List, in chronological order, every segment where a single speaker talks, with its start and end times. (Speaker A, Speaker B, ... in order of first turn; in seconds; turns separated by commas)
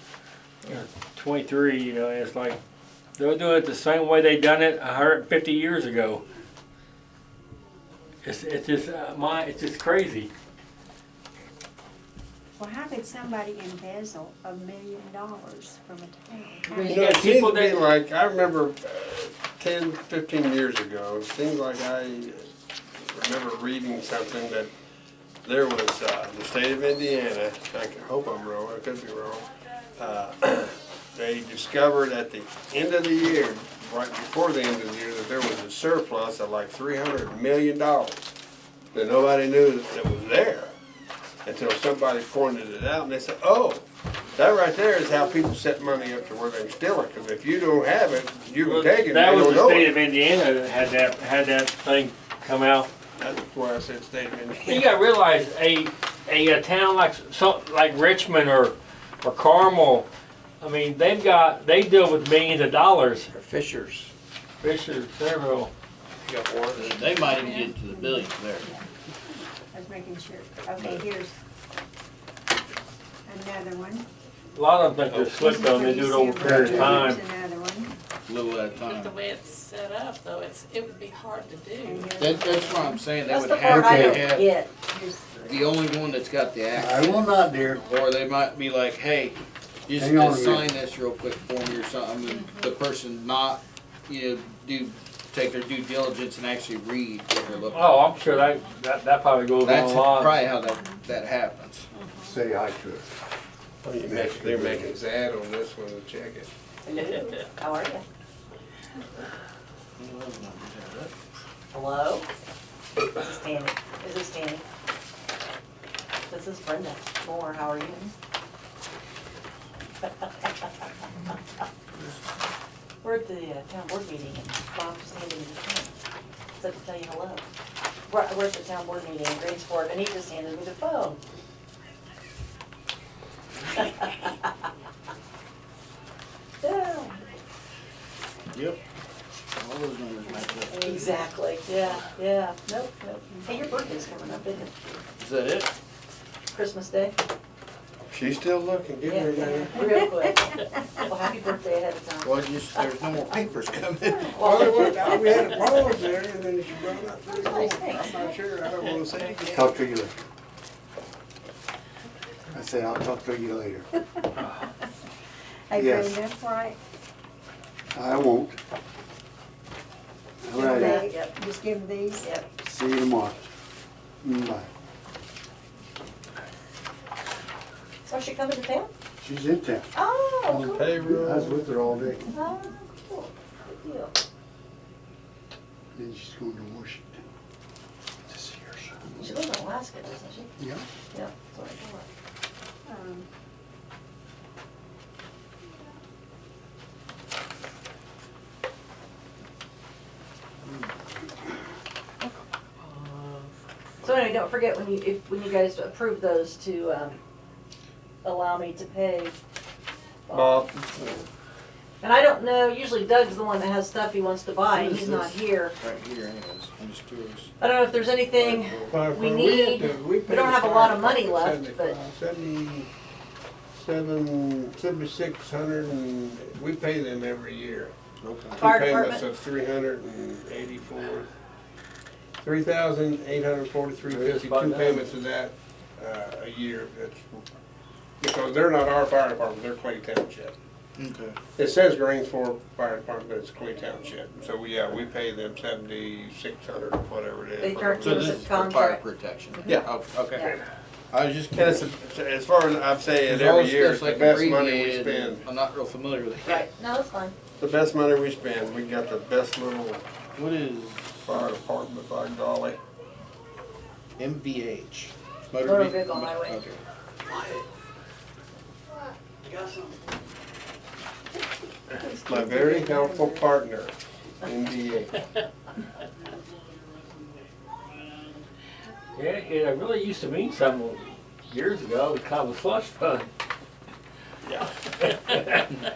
Speaker A: 0.6-2.6, Speaker A: 3.2-6.2, Speaker A: 8.2-10.3, Speaker B: 12.6-17.0, Speaker A: 16.8-17.9, Speaker C: 16.8-22.5, Speaker C: 23.1-24.7, Speaker C: 25.4-38.3, Speaker C: 38.9-40.8, Speaker C: 41.5-43.9, Speaker C: 44.4-49.9, Speaker A: 48.6-52.9, Speaker C: 53.2-54.9, Speaker A: 54.7-60.1, Speaker A: 60.6-63.3, Speaker C: 63.4-64.1, Speaker A: 64.6-65.7, Speaker C: 66.2-67.0, Speaker D: 66.7-68.7, Speaker B: 67.1-68.8, Speaker B: 69.7-71.3, Speaker D: 70.8-71.1, Speaker B: 73.3-74.1, Speaker A: 74.5-77.2, Speaker C: 75.1-75.3, Speaker B: 75.2-77.9, Speaker E: 76.4-77.1, Speaker D: 78.3-79.2, Speaker F: 78.8-82.0, Speaker B: 81.8-83.0, Speaker D: 82.2-84.5, Speaker G: 83.3-84.7, Speaker E: 83.7-84.2, Speaker B: 84.7-85.9, Speaker D: 85.5-87.3, Speaker E: 86.7-87.8, Speaker D: 87.8-98.2, Speaker E: 90.0-90.7, Speaker A: 97.7-100.5, Speaker D: 99.6-101.9, Speaker E: 102.2-103.1, Speaker C: 103.8-106.5, Speaker E: 104.0-104.9, Speaker G: 106.8-108.0, Speaker D: 110.0-111.1, Speaker G: 111.7-112.3, Speaker G: 113.2-114.6, Speaker G: 116.3-118.1, Speaker G: 123.0-125.9, Speaker G: 126.6-127.5, Speaker G: 128.1-131.2, Speaker G: 133.8-134.3, Speaker G: 136.6-137.2, Speaker D: 138.5-138.8, Speaker D: 139.6-141.2, Speaker G: 140.8-145.0, Speaker D: 145.2-145.7, Speaker G: 146.5-147.2, Speaker C: 148.1-150.0, Speaker G: 149.0-152.8, Speaker D: 152.2-154.4, Speaker G: 154.2-155.8, Speaker C: 154.4-159.7, Speaker G: 157.3-158.4, Speaker E: 159.5-160.2, Speaker E: 162.5-163.9, Speaker B: 165.7-166.8, Speaker E: 165.7-166.2, Speaker E: 167.9-168.6, Speaker E: 170.4-171.0, Speaker G: 170.5-171.4, Speaker B: 170.6-172.4, Speaker G: 172.2-172.5, Speaker E: 172.6-173.4, Speaker E: 174.2-174.7, Speaker G: 178.1-178.9, Speaker E: 179.2-179.9, Speaker G: 179.9-181.0, Speaker E: 180.5-182.3, Speaker C: 180.7-181.7, Speaker G: 182.3-184.1, Speaker E: 185.9-187.2, Speaker E: 188.3-189.4, Speaker G: 189.2-190.5, Speaker E: 190.6-190.8, Speaker G: 191.1-192.1, Speaker B: 192.9-193.3, Speaker F: 202.9-203.3, Speaker G: 204.0-207.2, Speaker G: 208.2-209.3, Speaker G: 210.3-210.7, Speaker C: 210.3-210.9, Speaker D: 210.9-211.2, Speaker G: 212.0-215.8, Speaker D: 214.7-217.5, Speaker G: 217.6-222.0, Speaker D: 218.4-219.0, Speaker C: 218.8-222.9, Speaker C: 223.7-227.9, Speaker D: 228.2-228.7, Speaker C: 228.6-231.3, Speaker G: 228.6-229.2, Speaker C: 232.4-237.4, Speaker A: 234.1-235.1, Speaker C: 238.2-240.5, Speaker D: 241.0-241.4, Speaker C: 241.6-248.5, Speaker G: 247.6-249.0, Speaker D: 248.0-250.5, Speaker G: 250.3-250.6, Speaker D: 251.1-251.9, Speaker C: 251.5-255.5, Speaker D: 253.2-256.7, Speaker G: 256.4-257.4, Speaker C: 257.6-260.1, Speaker D: 260.4-261.5, Speaker C: 261.3-262.8, Speaker D: 264.2-267.6, Speaker G: 265.6-266.6, Speaker G: 272.0-273.4, Speaker C: 272.3-275.2, Speaker B: 272.3-273.0, Speaker A: 279.1-283.3, Speaker A: 285.0-285.7